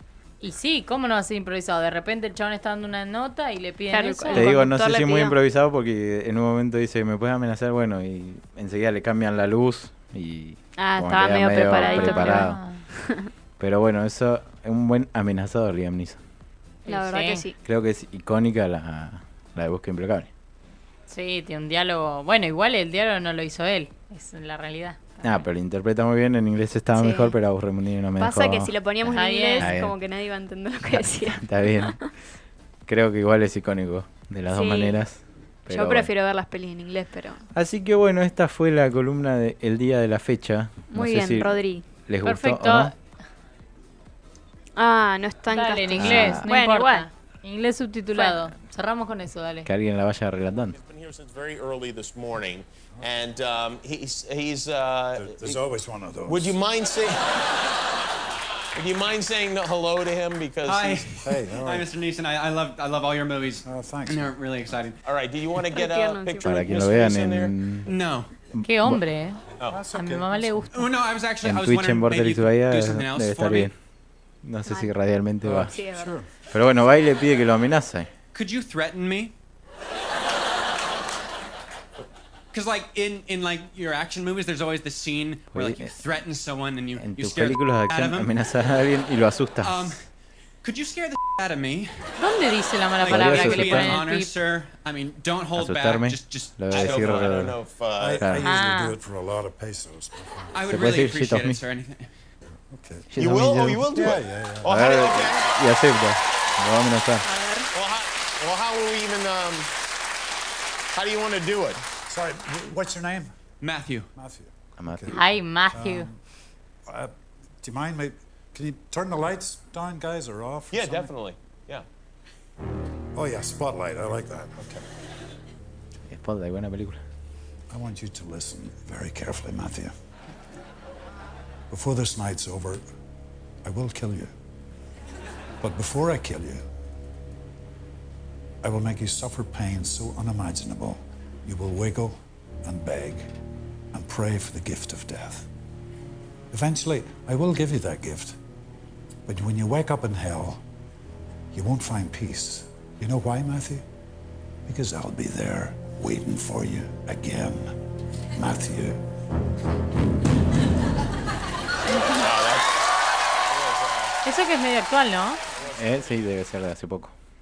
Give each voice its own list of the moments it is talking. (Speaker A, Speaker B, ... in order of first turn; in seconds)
Speaker A: 0.4-4.5, 11.9-12.8, 16.9-17.4, 21.1-25.4, 29.1-29.7, 42.2-42.9, 45.5-49.7, 68.6-69.4, 69.9-70.9, 92.2-94.3, 98.4-99.0, 115.1-116.1, 164.2-165.4
Speaker B: 3.9-5.4, 10.8-13.3, 16.9-17.6, 26.9-27.3, 28.2-32.1, 34.5-35.0, 35.7-37.5, 40.9-41.8, 44.8-47.1, 65.7-66.8, 74.7-74.9, 75.7-76.1, 107.2-107.7, 161.9-162.2
Speaker C: 4.3-12.6, 13.6-16.2, 17.6-20.3, 25.2-28.7, 29.6-29.9, 30.9-32.0, 32.9-36.1, 37.5-41.5, 42.1-42.9, 46.0-46.4, 49.6-50.8, 66.4-67.9, 68.5-69.0, 71.4-73.7, 74.4-75.8, 76.5-78.1, 85.5-85.9, 87.0-89.9, 93.1-94.0, 95.5-97.6, 98.2-98.5, 100.7-101.6, 103.1-103.9, 104.6-107.2, 114.8-115.2, 126.1-127.0, 165.7-167.1
Speaker D: 50.6-55.6, 56.3-57.4, 58.8-60.9, 65.0-67.5, 96.7-98.2, 103.2-105.5, 107.7-109.7, 110.9-111.8, 120.7-121.8, 162.1-162.8, 163.3-164.2, 165.5-166.2
Speaker E: 55.1-56.6, 60.9-61.9, 63.6-64.4, 69.6-70.6, 75.4-76.3, 98.0-100.6, 102.7-104.8, 112.1-113.3, 114.1-115.2, 115.7-116.2, 116.9-121.1, 123.1-124.8, 127.7-129.9, 131.7-132.8, 133.6-134.3, 135.6-136.6, 138.6-143.3, 143.9-145.5, 146.5-148.4, 149.2-150.6, 151.5-153.8, 154.7-157.7, 158.4-159.0
Speaker F: 60.6-65.0, 67.8-68.3, 70.7-73.7, 78.3-79.3, 82.5-88.3, 89.6-90.0, 90.6-92.1, 93.0-97.3, 100.5-102.0, 113.6-114.1